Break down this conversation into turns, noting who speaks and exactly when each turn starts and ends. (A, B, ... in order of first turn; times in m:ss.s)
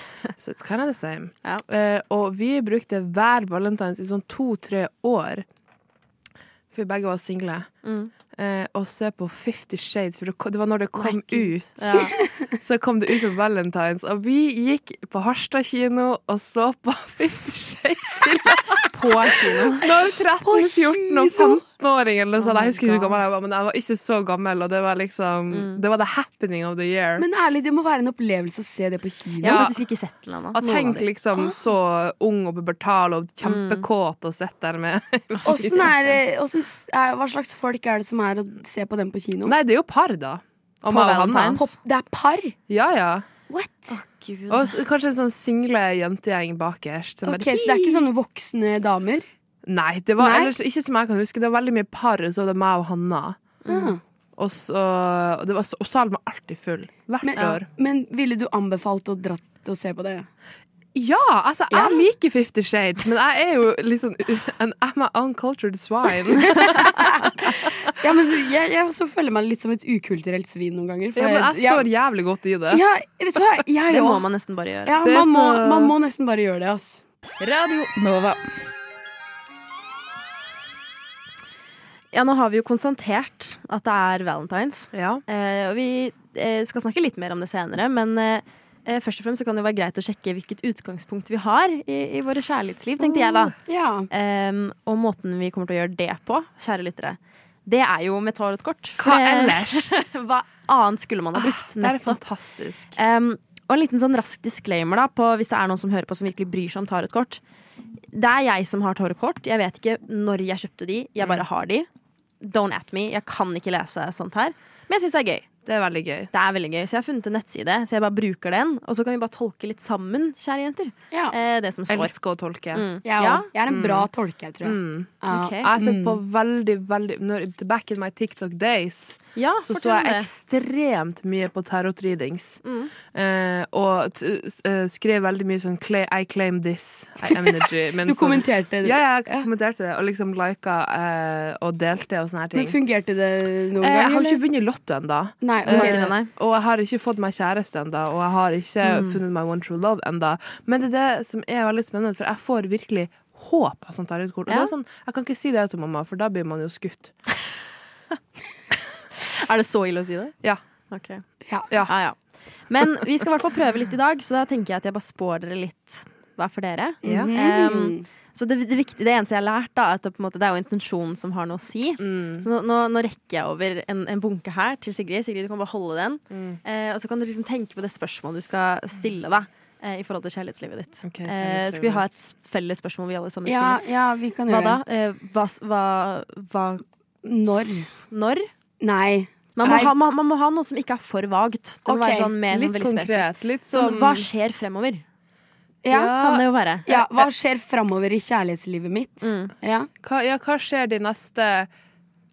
0:00.4-0:05.4 A
0:06.7-0:07.7 A
0:07.8-0:08.1 B
0:08.3-0:27.2 A
0:11.0-0:12.2 B
0:18.9-0:19.9 B
0:20.4-0:21.6 C
0:22.5-0:23.1 B
0:25.5-0:25.8 B
0:27.2-0:29.6 C
0:29.4-0:31.1 B
0:29.4-0:29.7 A
0:30.5-0:35.9 A
0:33.4-0:33.9 B
0:35.4-0:39.5 C
0:39.4-0:41.6 A
0:40.9-0:41.7 B
0:41.6-0:42.6 C
0:42.7-0:43.2 A
0:43.5-0:44.0 C
0:43.9-0:44.8 B
0:44.5-0:48.0 A
0:47.2-0:49.3 C
0:49.6-0:53.4 A
0:50.2-0:50.5 C
0:53.6-0:53.9 B
0:53.7-0:54.0 C
0:54.4-0:57.6 A
0:57.2-1:00.3 C
1:00.9-1:06.9 A
1:01.7-1:02.0 C
1:06.4-1:11.9 C
1:11.2-1:12.8 A
1:12.7-1:14.2 C
1:13.9-1:15.0 B
1:14.9-1:17.0 C
1:15.0-1:15.9 A
1:17.4-1:18.4 B
1:22.1-1:33.5 B
1:24.9-1:25.2 A
1:33.6-1:34.1 C
1:34.1-1:42.2 B
1:39.0-1:39.9 A
1:41.4-1:43.0 A
1:42.9-1:47.4 B
1:48.1-1:51.9 B
1:52.4-1:55.5 B
1:55.6-1:56.3 A
1:56.3-2:02.1 B
2:01.9-2:02.8 A
2:02.7-2:03.5 B
2:03.0-2:06.2 C
2:03.7-2:04.1 A
2:04.6-2:22.8 A
2:05.3-2:05.7 B
2:09.4-2:10.3 B
2:12.6-2:12.9 B
2:18.0-2:19.5 C
2:22.6-2:24.4 C
2:23.8-2:37.1 A
2:25.4-2:26.1 C
2:25.6-2:26.3 B
2:28.8-2:29.2 B
2:34.5-2:34.7 B
2:39.1-2:40.4 B
2:40.9-2:41.2 B
2:41.8-2:42.2 B
2:42.7-3:03.8 B
2:47.0-2:48.1 C
2:47.0-2:47.3 A
2:52.0-2:52.5 A
2:56.3-2:56.6 A
3:01.0-3:02.0 A
3:03.4-3:04.8 C
3:04.5-3:06.8 B
3:07.2-3:07.9 C
3:08.1-3:08.5 B
3:08.8-3:09.9 C
3:09.6-3:15.0 B
3:11.9-3:12.3 C
3:12.5-3:14.2 A
3:15.8-3:16.1 C
3:15.9-3:16.4 A
3:16.2-3:17.0 B
3:16.9-3:19.9 C
3:19.2-3:19.5 B
3:20.0-3:21.7 A